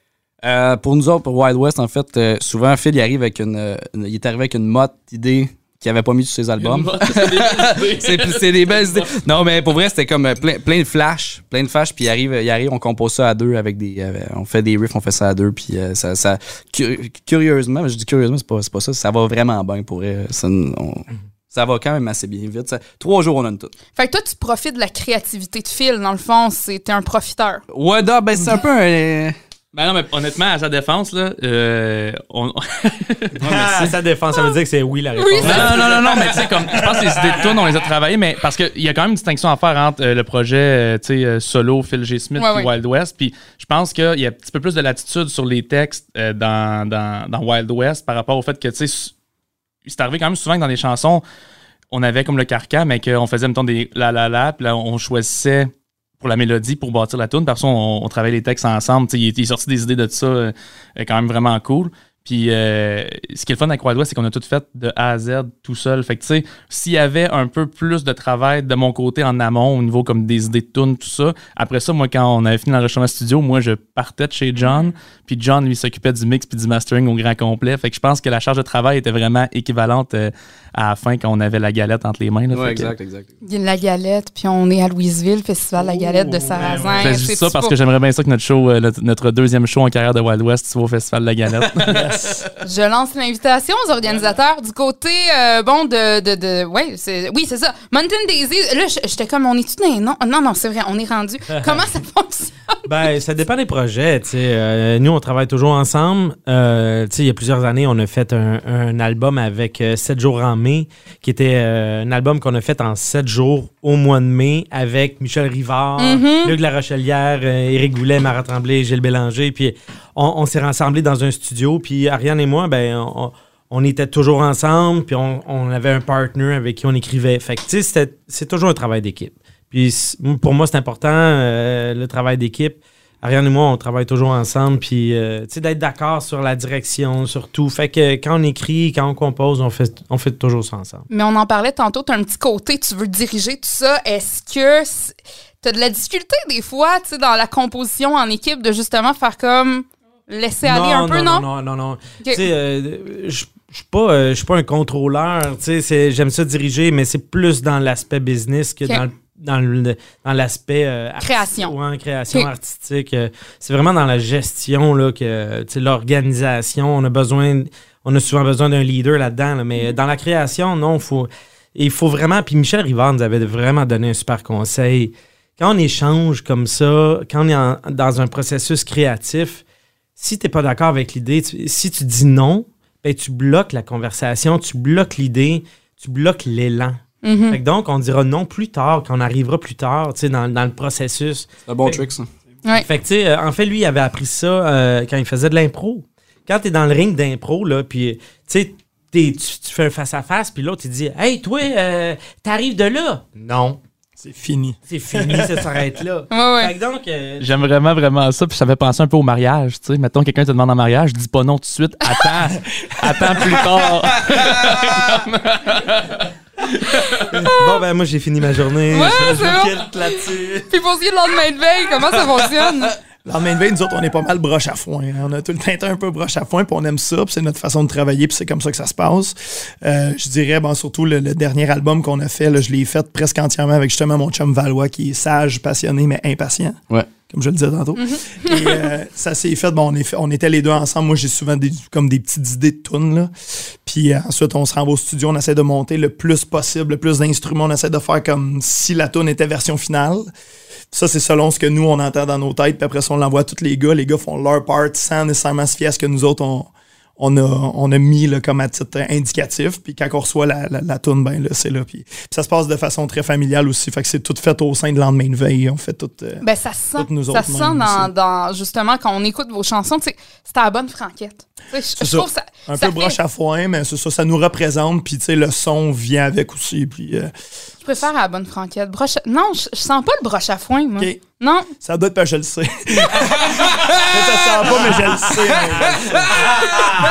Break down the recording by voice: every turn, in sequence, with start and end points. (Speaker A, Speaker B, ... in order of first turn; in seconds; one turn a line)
Speaker A: 0.4-23.7
Speaker B: 6.6-9.2
Speaker C: 23.9-27.6
Speaker A: 27.7-29.4
Speaker B: 29.7-33.4
Speaker A: 33.4-34.0
Speaker D: 33.4-37.3
Speaker C: 35.1-36.3
Speaker B: 35.4-49.1
Speaker C: 42.4-42.7
Speaker B: 49.8-51.2
Speaker B: 51.9-82.9
Speaker A: 82.5-83.3
Speaker C: 83.4-87.7
Speaker E: 86.1-87.0
Speaker B: 87.0-92.1
Speaker E: 91.8-92.5
Speaker C: 92.6-102.9
Speaker D: 102.8-141.1
Speaker C: 116.0-116.5
Speaker C: 141.1-151.4
Speaker D: 150.6-179.6
Speaker C: 161.2-161.7
Speaker D: 180.2-192.1
Speaker C: 187.2-187.6
Speaker A: 191.7-192.3
Speaker D: 192.7-203.8
Speaker E: 204.2-205.7
Speaker D: 204.9-207.5
Speaker C: 206.3-206.7
Speaker B: 207.4-217.4
Speaker E: 212.9-213.7
Speaker D: 217.3-220.7
Speaker C: 217.4-217.8
Speaker C: 218.9-222.9
Speaker E: 223.2-243.3
Speaker C: 238.0-238.9
Speaker E: 243.8-250.3
Speaker E: 250.9-266.4
Speaker C: 266.4-273.2
Speaker E: 266.9-268.1
Speaker E: 272.0-277.3
Speaker C: 277.8-281.7
Speaker E: 281.8-286.3